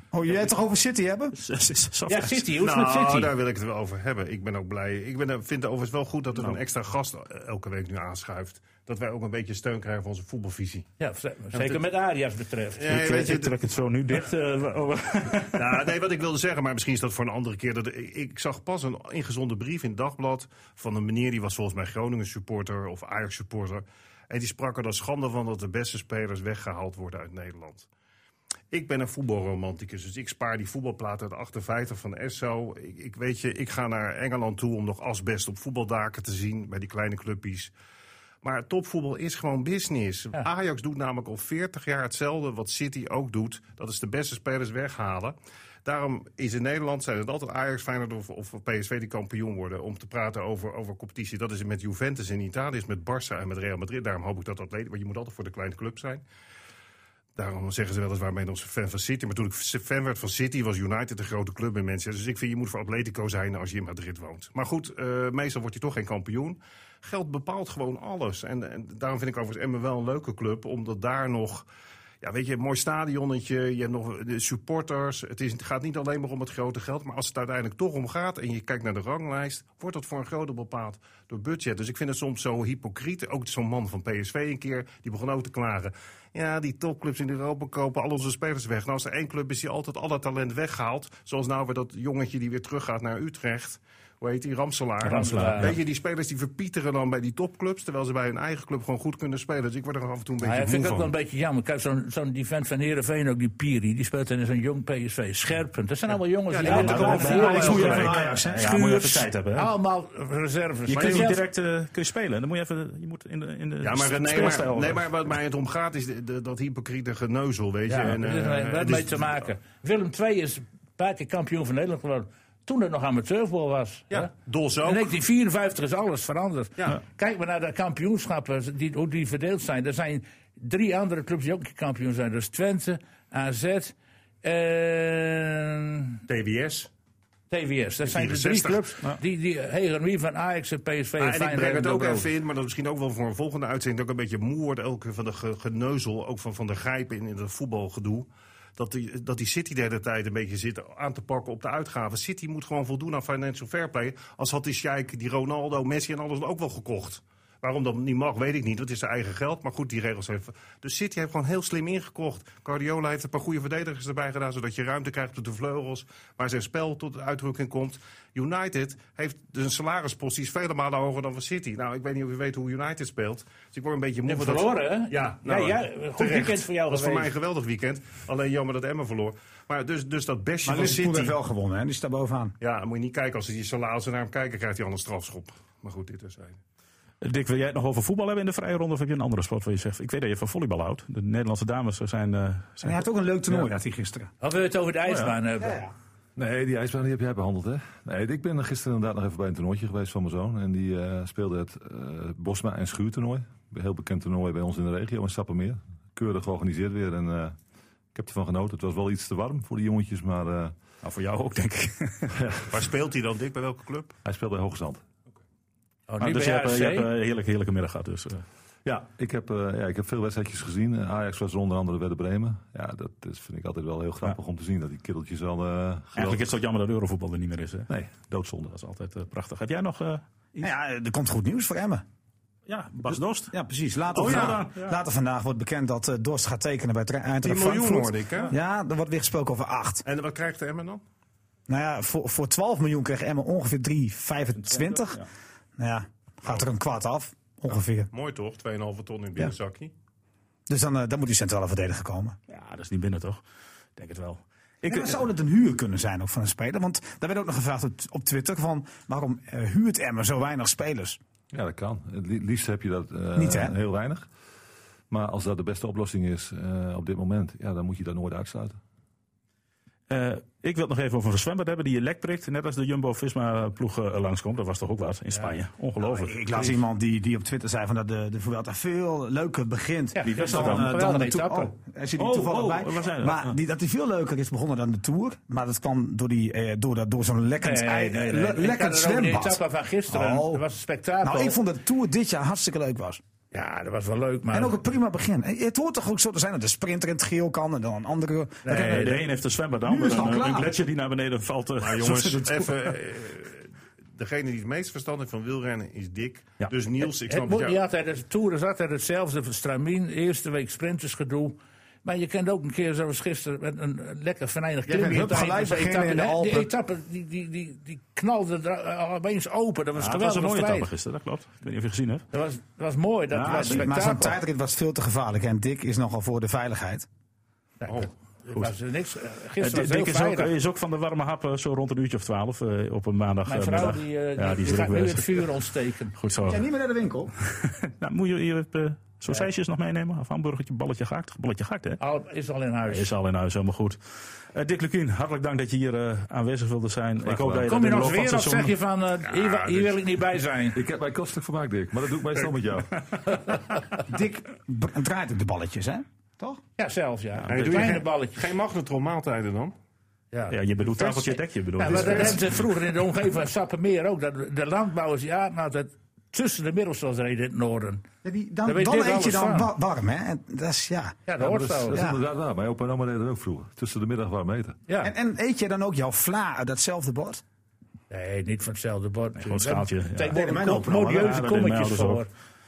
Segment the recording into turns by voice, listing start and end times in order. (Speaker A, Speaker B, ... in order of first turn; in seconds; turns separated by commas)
Speaker A: 0.1-1.4, Speaker B: 1.3-2.5, Speaker C: 2.1-3.3, Speaker D: 2.6-10.9, Speaker C: 11.0-13.1, Speaker D: 11.5-11.8, Speaker D: 12.8-13.6, Speaker B: 12.9-15.8, Speaker D: 15.6-27.9, Speaker D: 28.7-37.7, Speaker D: 38.4-56.2, Speaker D: 57.4-71.7, Speaker D: 72.2-101.1, Speaker C: 95.0-95.8, Speaker B: 95.0-95.8, Speaker C: 100.4-111.4, Speaker D: 106.5-108.1, Speaker A: 106.6-108.8, Speaker B: 106.7-109.7, Speaker B: 110.9-115.0, Speaker D: 110.9-111.3, Speaker D: 113.8-119.5, Speaker C: 117.9-124.3, Speaker D: 124.1-125.1, Speaker C: 124.8-136.2, Speaker D: 136.3-136.9, Speaker C: 137.5-142.3, Speaker D: 138.1-139.2, Speaker D: 141.2-181.4, Speaker C: 174.3-177.3, Speaker A: 180.7-182.6, Speaker D: 182.6-186.6, Speaker B: 187.2-193.7, Speaker A: 192.8-194.3, Speaker C: 194.4-195.8, Speaker A: 195.6-195.9, Speaker E: 196.4-207.6, Speaker E: 208.1-210.8, Speaker B: 211.0-212.3, Speaker E: 212.3-212.7, Speaker D: 212.7-214.2, Speaker E: 214.2-215.0, Speaker C: 216.1-217.1, Speaker B: 216.2-218.4, Speaker E: 218.8-226.6, Speaker B: 226.2-227.9, Speaker E: 227.9-228.8, Speaker B: 228.7-230.7, Speaker A: 230.6-232.1, Speaker B: 232.7-233.6, Speaker A: 233.1-240.0, Speaker D: 234.1-234.6, Speaker B: 234.1-235.0, Speaker D: 237.4-238.5, Speaker D: 240.1-241.0, Speaker A: 241.7-245.2, Speaker B: 244.6-245.3, Speaker A: 245.8-248.1, Speaker D: 248.1-249.9, Speaker A: 250.7-252.4, Speaker B: 252.5-253.4, Speaker B: 254.0-255.2, Speaker A: 254.8-261.2, Speaker E: 261.5-264.3, Speaker A: 263.4-263.8, Speaker E: 265.1-268.8, Speaker B: 270.1-276.4, Speaker C: 275.3-275.6, Speaker A: 276.0-290.6, Speaker C: 280.1-281.7, Speaker B: 280.2-281.0, Speaker B: 282.2-283.6, Speaker C: 287.6-291.6, Speaker A: 291.2-293.2, Speaker C: 293.5-294.8, Speaker A: 294.5-299.2, Speaker C: 298.7-299.2, Speaker B: 298.7-302.9, Speaker A: 299.9-300.7, Speaker D: 301.8-307.8, Speaker C: 307.0-320.9, Speaker A: 314.9-316.7, Speaker B: 320.0-322.2, Speaker C: 322.3-324.4, Speaker B: 323.3-323.9, Speaker A: 323.4-327.1, Speaker C: 327.8-330.5, Speaker B: 329.6-335.5, Speaker C: 333.5-336.1, Speaker B: 336.2-336.6, Speaker A: 336.4-337.3, Speaker B: 337.9-342.0, Speaker C: 342.0-343.1, Speaker B: 342.9-348.8, Speaker E: 347.2-347.8, Speaker C: 347.6-350.8, Speaker D: 349.3-350.0, Speaker E: 350.7-353.5, Speaker A: 354.1-356.6, Speaker C: 356.8-358.5, Speaker B: 357.5-358.0, Speaker D: 357.5-359.7, Speaker C: 360.3-368.1, Speaker B: 360.5-362.6, Speaker A: 368.2-371.2, Speaker C: 368.6-369.7, Speaker C: 371.3-372.0, Speaker E: 371.4-374.8, Speaker A: 371.9-372.2, Speaker C: 374.9-375.1, Speaker A: 375.0-377.4, Speaker C: 378.1-382.3, Speaker B: 379.4-382.3, Speaker A: 380.3-381.4